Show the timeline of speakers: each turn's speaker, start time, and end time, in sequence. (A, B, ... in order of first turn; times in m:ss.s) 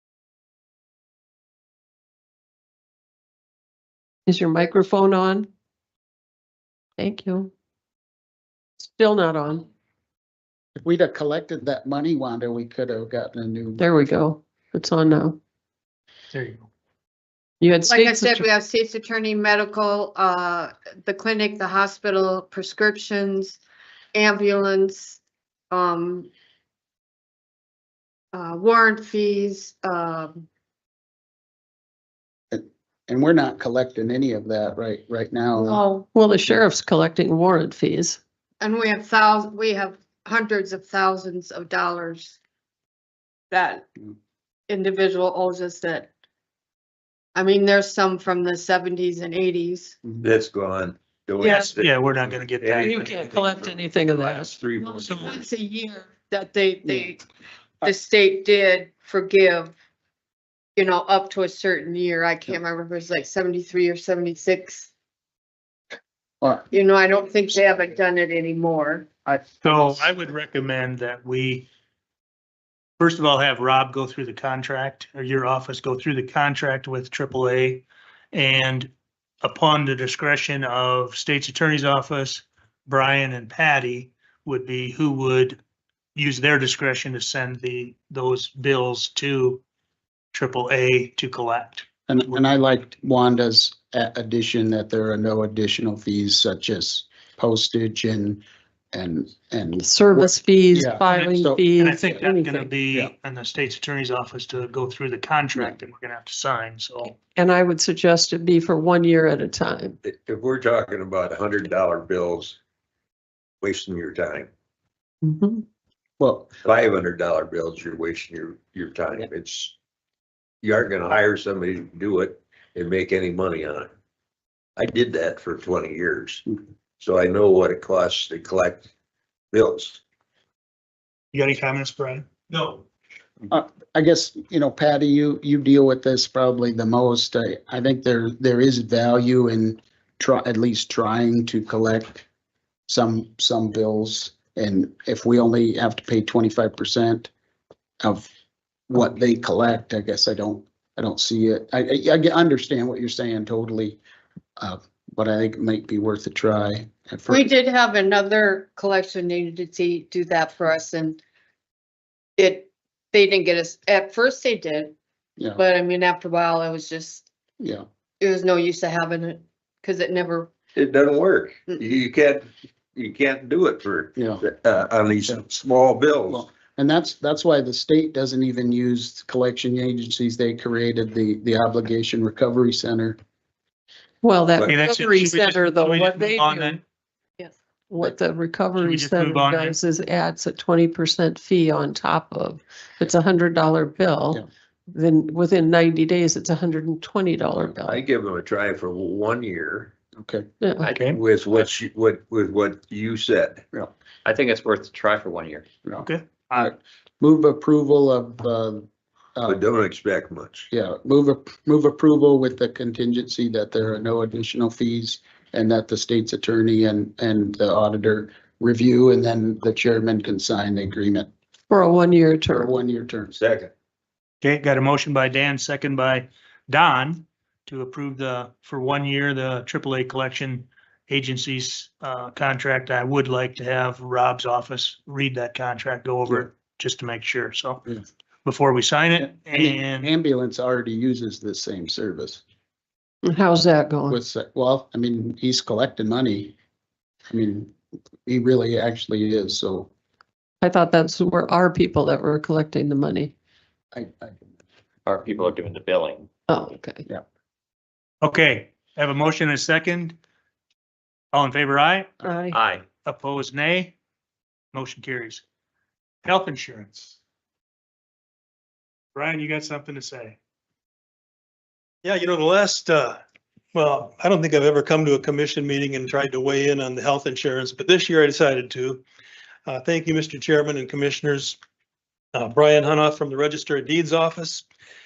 0:04.2-0:05.5 A
0:07.0-0:07.5 A
0:08.8-0:09.6 A
0:10.8-0:13.8 B
0:13.8-0:15.4 A
0:16.3-0:16.7 C
0:17.6-0:18.4 A
0:17.8-0:23.6 D
0:24.1-0:25.2 D
0:25.7-0:26.3 D
0:28.3-0:30.4 D
0:32.5-0:35.8 B
0:35.6-0:36.1 D
0:36.1-0:38.2 A
0:38.6-0:42.4 D
0:43.5-0:43.9 D
0:44.7-0:46.1 D
0:47.3-0:50.0 D
0:50.2-0:55.4 E
0:51.4-0:51.7 D
0:51.4-0:53.1 C
0:52.8-0:54.5 A
0:54.8-0:57.2 D
0:56.8-0:57.1 B
0:57.8-0:59.7 D
1:00.8-1:04.9 D
1:06.4-1:06.7 B
1:06.7-1:09.1 D
1:09.2-1:10.0 B
1:09.6-1:11.7 C
1:13.0-1:18.9 C
1:19.4-1:25.6 C
1:26.2-1:29.6 C
1:30.3-1:31.8 C
1:32.1-1:41.6 B
1:39.8-1:42.7 A
1:41.8-1:47.2 C
1:47.1-1:50.0 A
1:50.0-1:52.6 E
1:53.6-1:54.5 E
1:55.2-1:55.6 A
1:56.2-1:56.5 B
1:56.6-1:59.7 E
2:00.6-2:03.9 E
2:04.8-2:06.4 E
2:07.0-2:08.8 E
2:09.5-2:10.0 E
2:11.3-2:12.8 C
2:13.5-2:22.2 B
2:22.9-2:27.3 B
2:28.0-2:28.3 B
2:28.9-2:34.0 B
2:34.6-2:37.5 B
2:37.3-2:41.2 D
2:42.4-2:44.9 D
2:45.6-2:47.2 D
2:47.6-2:47.8 B
2:48.2-2:50.5 D
2:50.8-2:56.4 E
2:54.2-2:54.4 B
2:56.3-3:03.2 B
3:04.2-3:06.8 A
3:04.6-3:06.8 C
3:07.9-3:18.0 A
3:08.8-3:09.8 C
3:17.8-3:19.9 E
3:20.2-3:20.5 B
3:20.6-3:20.9 A
3:20.8-3:21.1 F
3:20.9-3:21.2 C
3:21.1-3:23.6 E
3:24.2-3:25.6 F
3:25.8-3:29.6 B
3:26.0-3:26.7 C
3:29.5-3:30.7 E
3:30.7-3:41.3 B
3:41.7-3:42.7 A
3:42.5-3:43.4 B
3:43.3-3:43.7 E
3:44.4-3:57.8 C
3:58.4-4:00.1 C
3:59.2-4:02.4 B
4:03.2-4:04.2 A
4:04.1-4:06.5 B
4:07.3-4:09.9 B
4:10.6-4:13.3 A
4:13.9-4:14.3 B
4:15.0-4:16.3 F
4:16.5-4:17.0 A
4:18.2-4:20.2 C
4:21.3-4:22.2 C
4:22.2-4:22.6 A
4:22.5-4:22.8 F
4:23.0-4:23.9 C
4:24.7-4:25.4 C
4:26.2-4:27.2 C
4:29.1-4:30.4 C
4:32.0-4:33.2 G
4:33.7-4:39.0 G
4:39.7-4:41.6 G
4:42.3-4:44.6 G